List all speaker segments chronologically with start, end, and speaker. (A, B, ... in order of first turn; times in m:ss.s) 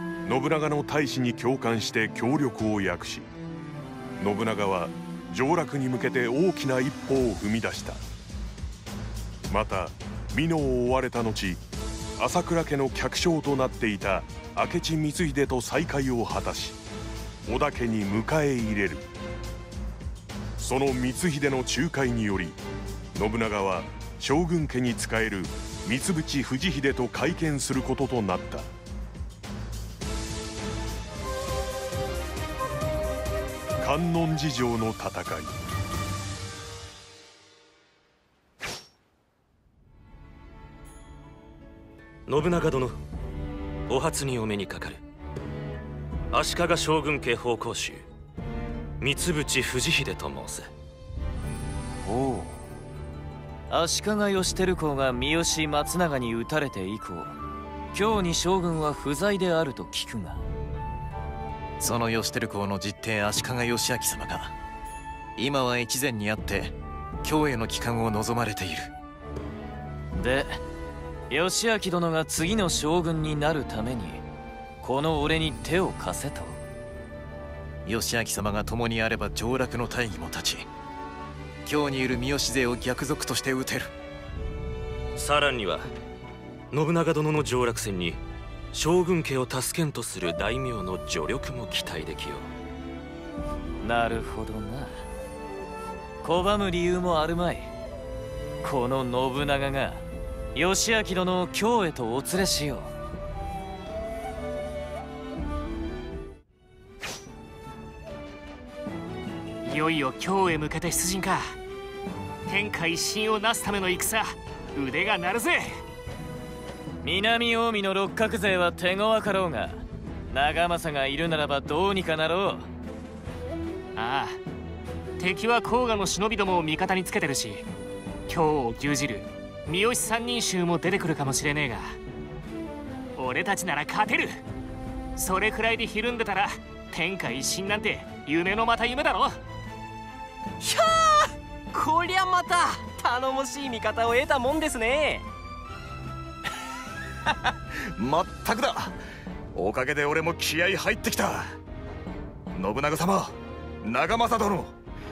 0:00.2-0:03.3 A
0:04.2-0:08.0 A
0:09.5-0:11.6 A
0:12.2-0:16.8 A
0:17.5-0:19.1 A
0:20.6-0:22.6 A
0:23.1-0:28.7 A
0:33.8-0:35.5 A
0:42.3-0:43.0 B
0:43.9-0:45.0 B
0:46.3-0:48.1 B
0:49.0-0:50.7 B
0:52.0-0:52.6 C
0:53.7-0:57.4 C
0:57.9-1:00.4 C
1:01.8-1:04.5 D
1:05.4-1:08.9 D
1:10.1-1:10.6 C
1:11.3-1:14.2 C
1:14.8-1:16.6 C
1:17.8-1:20.7 D
1:21.6-1:23.9 D
1:25.2-1:25.9 B
1:26.7-1:28.2 B
1:28.7-1:32.5 B
1:33.8-1:35.0 C
1:36.2-1:37.7 C
1:38.6-1:40.0 C
1:40.6-1:42.9 C
1:49.6-1:51.6 E
1:52.5-1:55.8 E
1:57.0-2:02.7 C
2:04.0-2:04.4 E
2:05.2-2:07.7 E
2:08.3-2:12.0 E
2:13.2-2:14.4 E
2:15.2-2:19.4 E
2:20.6-2:25.2 F
2:27.8-2:29.0 G
2:29.5-2:31.6 G
2:32.5-2:34.7 G